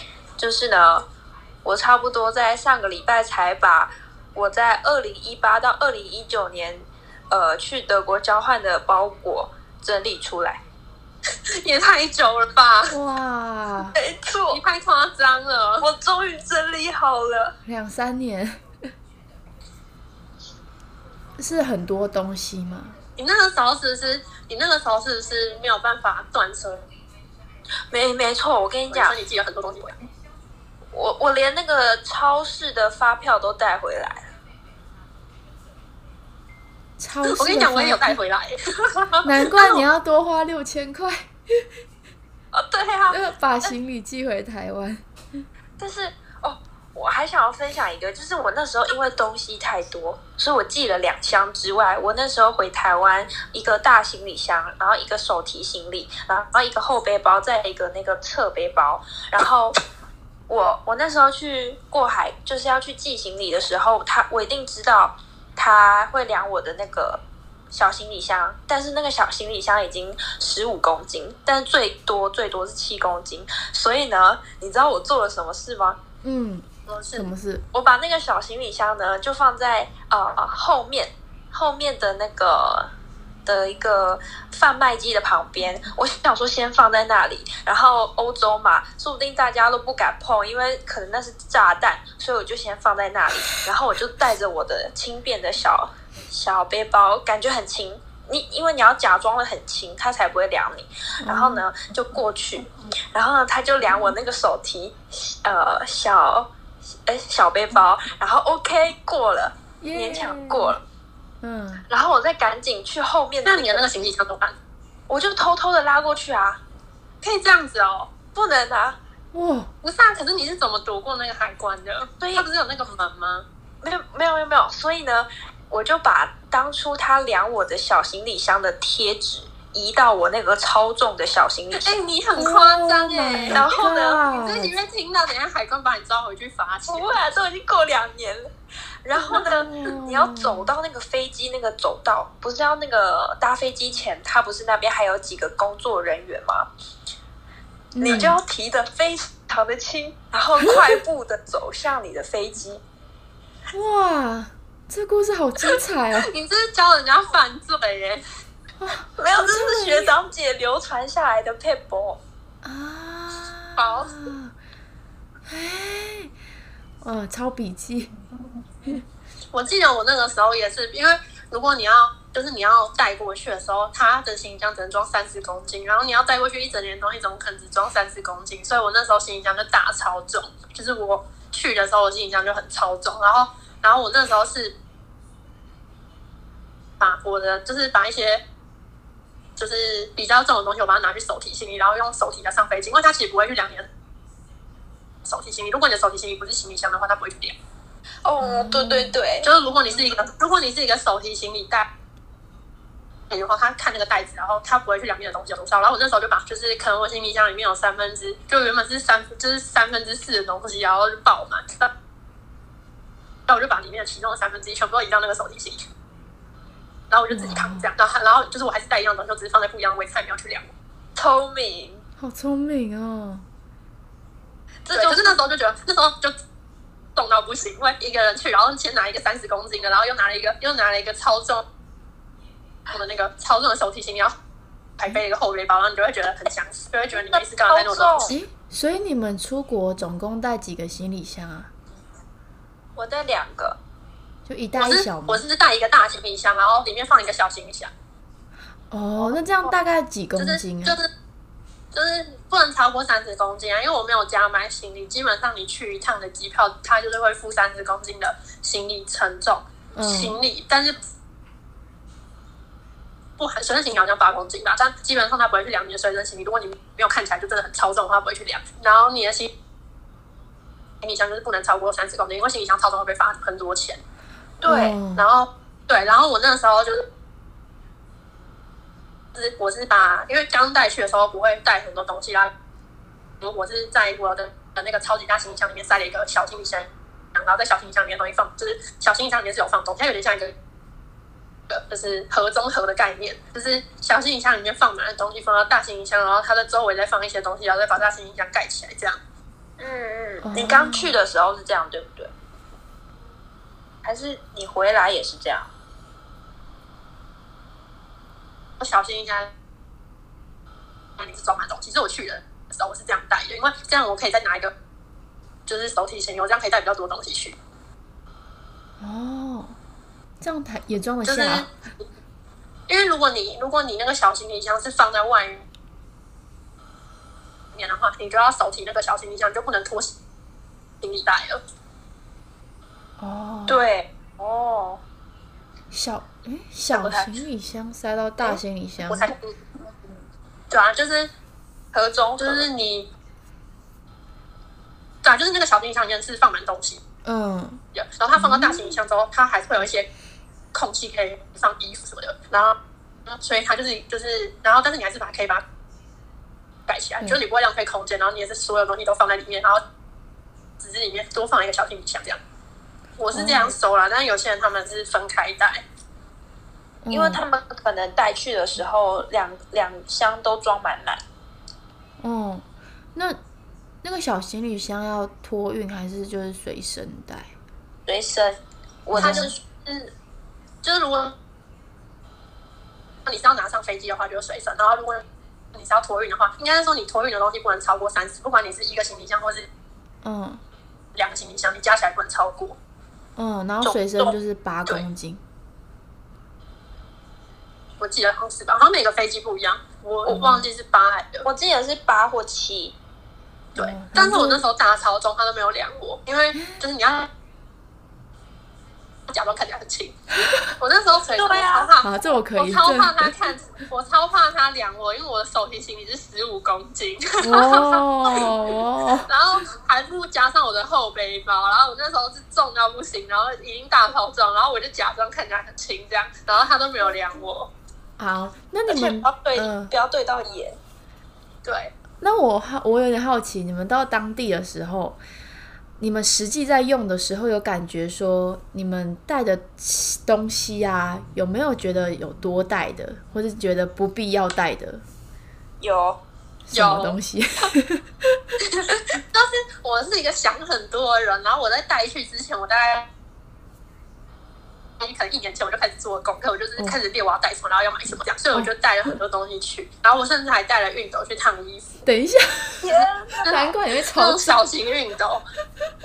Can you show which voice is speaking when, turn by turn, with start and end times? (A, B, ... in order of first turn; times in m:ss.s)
0:00.4-0:01.0 A
0:01.6-0:10.6 A
0:11.5-0:13.0 B
0:12.9-0:14.0 C
0:14.0-0:14.6 A
0:14.5-0:15.9 B
0:15.8-0:17.6 A
0:17.7-0:18.6 C
0:21.4-0:23.0 C
0:23.2-0:26.8 B
0:27.9-0:29.2 A
0:28.9-0:30.0 B
0:30.9-0:34.3 A
0:37.0-0:38.2 C
0:37.2-0:39.8 B
0:39.2-0:41.6 C
0:42.5-0:43.7 A
0:43.1-0:45.0 C
0:45.8-0:59.8 A
1:00.5-1:07.2 A
1:07.7-1:16.0 A
1:16.2-1:17.6 C
1:16.9-1:17.3 B
1:17.7-1:22.9 A
1:23.4-1:46.5 A
1:41.2-1:41.6 C
1:47.1-1:50.8 A
1:49.8-1:50.8 C
1:51.4-1:51.8 C
1:51.9-1:53.9 A
1:53.4-1:54.6 B
1:55.1-1:56.6 A
1:57.2-1:58.1 B
1:58.3-1:59.0 A
1:59.3-1:59.7 C
1:59.8-2:03.4 B
2:02.2-2:02.5 A
2:03.8-2:12.0 A
2:11.8-2:17.2 B
2:12.4-2:14.7 C
2:13.5-2:14.2 A
2:16.9-2:18.5 A
2:19.0-2:26.7 A
2:19.3-2:20.7 C
2:27.9-2:28.4 C
2:28.0-2:32.8 A
2:30.6-2:31.0 C
2:33.7-2:36.3 C
2:36.3-2:38.2 B
2:38.8-2:40.1 C
2:39.2-2:42.2 A
2:42.6-2:44.5 C
2:43.8-2:44.2 B
2:45.4-2:46.3 C
2:47.0-2:48.1 C
2:49.5-3:04.8 B
3:07.0-3:08.4 B
3:09.6-3:13.9 B
3:15.2-3:17.6 B
3:18.2-3:19.5 A
3:18.4-3:19.2 C
3:19.4-3:21.9 B
3:23.3-3:31.9 B
3:33.5-3:35.8 B
3:37.1-3:40.7 B
3:37.3-3:37.9 C
3:41.2-3:42.0 A
3:42.2-3:43.4 C
3:44.8-3:45.4 A
3:44.9-3:46.3 B
3:47.2-3:51.6 B
3:52.9-3:54.3 B
3:55.0-3:58.3 B
3:57.7-3:58.4 A
3:58.3-4:01.7 C
4:03.0-4:03.8 A
4:04.4-4:05.4 C
4:04.8-4:07.9 B
4:08.9-4:11.0 C
4:10.4-4:11.1 B
4:11.9-4:21.0 B
4:19.9-4:20.4 C
4:23.4-4:29.5 B
4:31.0-4:34.0 B
4:34.6-4:35.0 A
4:34.7-4:35.2 C
4:35.2-4:37.1 B
4:39.3-4:42.5 B
4:43.4-4:50.6 B
4:51.7-4:59.2 B
4:59.8-5:02.3 A
5:00.4-5:01.2 C
5:04.0-5:05.7 A
5:08.8-5:09.5 B
5:11.2-5:14.7 B
5:15.7-5:17.6 B
5:19.0-5:19.8 C
5:20.4-5:21.7 C
5:21.2-5:21.7 B
5:22.9-5:25.6 B
5:27.7-5:30.2 B
5:31.0-5:31.6 B
5:33.2-5:33.8 C
5:33.7-5:35.0 A
5:35.9-5:39.3 C
5:36.9-5:37.3 B
5:38.4-5:39.6 B
5:40.7-5:41.3 B
5:41.9-5:42.7 A
5:42.4-5:43.1 B
5:45.2-5:47.0 B
5:47.2-5:47.8 C
5:47.9-5:50.1 B
5:48.4-5:48.9 C
5:50.7-5:52.8 B
5:53.3-5:55.6 B
5:56.9-5:59.8 B
6:00.8-6:02.4 B
6:03.2-6:05.8 B
6:03.3-6:03.8 C
6:07.0-6:07.4 C
6:07.1-6:11.2 A
6:12.2-6:13.4 C
6:14.0-6:17.5 C
6:18.1-6:19.6 A
6:19.1-6:19.5 C
6:19.2-6:20.1 B
6:20.8-6:21.4 B
6:23.3-6:29.7 B
6:30.2-6:30.6 C
6:31.2-6:32.8 B
6:33.4-6:35.4 C
6:33.8-6:34.2 A
6:38.0-6:41.5 B
6:40.3-6:40.7 C
6:41.4-6:43.0 A
6:43.8-6:44.6 C
6:43.8-6:47.3 B
6:49.3-6:50.2 B
6:50.8-6:58.5 B
6:51.4-6:51.9 A
6:52.0-6:53.3 C
6:57.4-6:59.3 C
6:59.3-7:07.7 B
7:08.2-7:09.9 C
7:08.9-7:09.5 B
7:09.0-7:10.8 A
7:11.6-7:11.9 B
7:12.2-7:15.2 C
7:16.0-7:25.0 C
7:25.8-7:26.2 A
7:26.7-7:28.4 C
7:26.7-7:27.2 B
7:28.6-7:33.1 B
7:35.0-7:42.0 B
7:42.0-7:44.6 C
7:42.8-7:43.5 A
7:43.4-7:45.4 B